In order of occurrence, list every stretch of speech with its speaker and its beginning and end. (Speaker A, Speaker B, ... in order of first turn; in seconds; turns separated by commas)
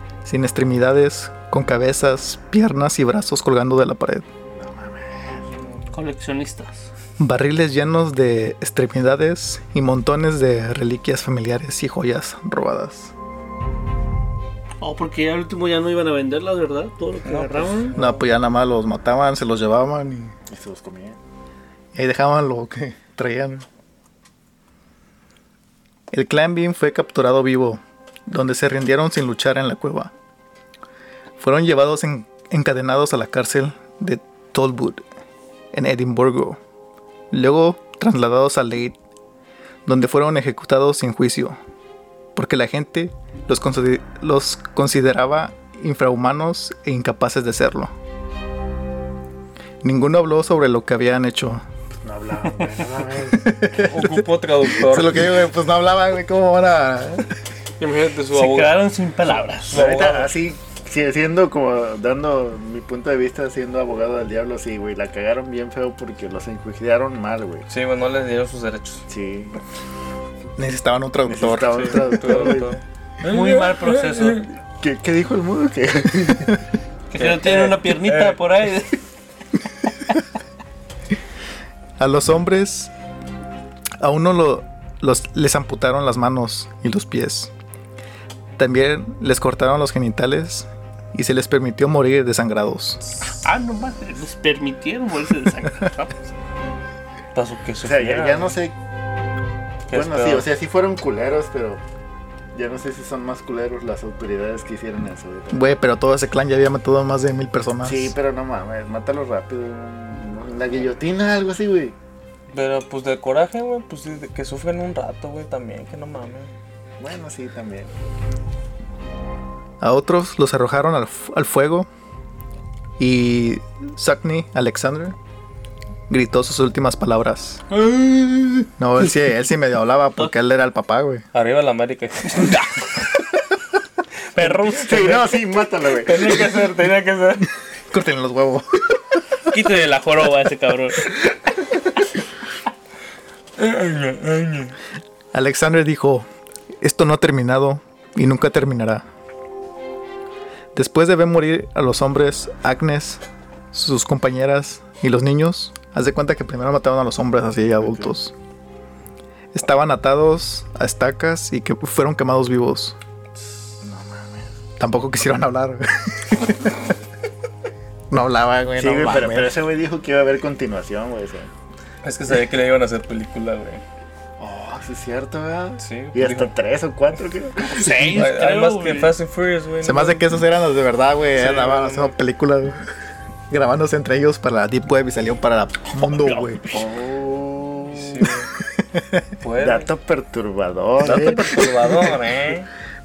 Speaker A: 0.2-4.3, Speaker B: 4.6-5.5, Speaker C: 5.6-5.9, Speaker D: 5.9-6.9, Speaker A: 7.2-13.1, Speaker D: 14.8-17.9, Speaker C: 17.2-18.3, Speaker A: 17.9-20.4, Speaker B: 20.5-21.2, Speaker A: 21.9-23.7, Speaker A: 26.1-30.1, Speaker A: 31.4-35.0, Speaker A: 35.7-36.6, Speaker A: 37.3-39.0, Speaker A: 39.9-41.6, Speaker A: 42.4-47.9, Speaker A: 49.8-51.6, Speaker B: 52.0-53.6, Speaker A: 53.4-57.3, Speaker C: 53.7-55.3, Speaker C: 57.8-60.3, Speaker D: 58.3-59.7, Speaker B: 59.7-67.7, Speaker C: 67.7-69.1, Speaker B: 69.1-69.6, Speaker A: 70.6-72.2, Speaker B: 71.3-72.8, Speaker C: 71.6-74.5, Speaker D: 73.2-74.5, Speaker B: 74.8-76.6, Speaker D: 77.1-79.0, Speaker C: 77.2-78.4, Speaker A: 82.0-82.9, Speaker A: 84.0-87.5, Speaker A: 88.6-93.0, Speaker D: 93.3-96.3, Speaker C: 97.3-98.6, Speaker B: 97.8-98.8, Speaker C: 99.9-100.5, Speaker B: 99.9-101.8, Speaker B: 102.5-105.7, Speaker A: 105.5-108.2, Speaker B: 107.8-112.0, Speaker C: 112.5-116.5, Speaker B: 117.0-117.9, Speaker A: 119.8-121.9, Speaker A: 123.0-125.2, Speaker A: 126.1-127.6, Speaker A: 128.8-131.2, Speaker C: 131.3-132.6, Speaker D: 134.3-135.3, Speaker B: 134.7-136.5, Speaker C: 135.9-137.5, Speaker A: 137.9-139.0, Speaker D: 139.5-141.1, Speaker C: 143.6-144.8, Speaker A: 145.3-146.3, Speaker A: 146.8-149.1, Speaker A: 150.8-158.3, Speaker B: 157.8-158.2, Speaker A: 159.5-163.0, Speaker B: 163.8-164.5, Speaker A: 164.8-166.8, Speaker A: 168.1-169.6, Speaker B: 168.8-171.5, Speaker C: 172.0-173.8, Speaker B: 174.4-178.2, Speaker C: 175.8-176.5, Speaker D: 177.6-179.1, Speaker C: 177.9-180.3, Speaker A: 179.8-182.8, Speaker C: 181.4-182.2, Speaker A: 183.5-186.7, Speaker D: 186.2-186.9, Speaker B: 186.7-188.3, Speaker C: 187.9-188.5, Speaker A: 188.8-189.2, Speaker C: 189.4-189.9, Speaker B: 189.6-192.1, Speaker C: 191.0-192.7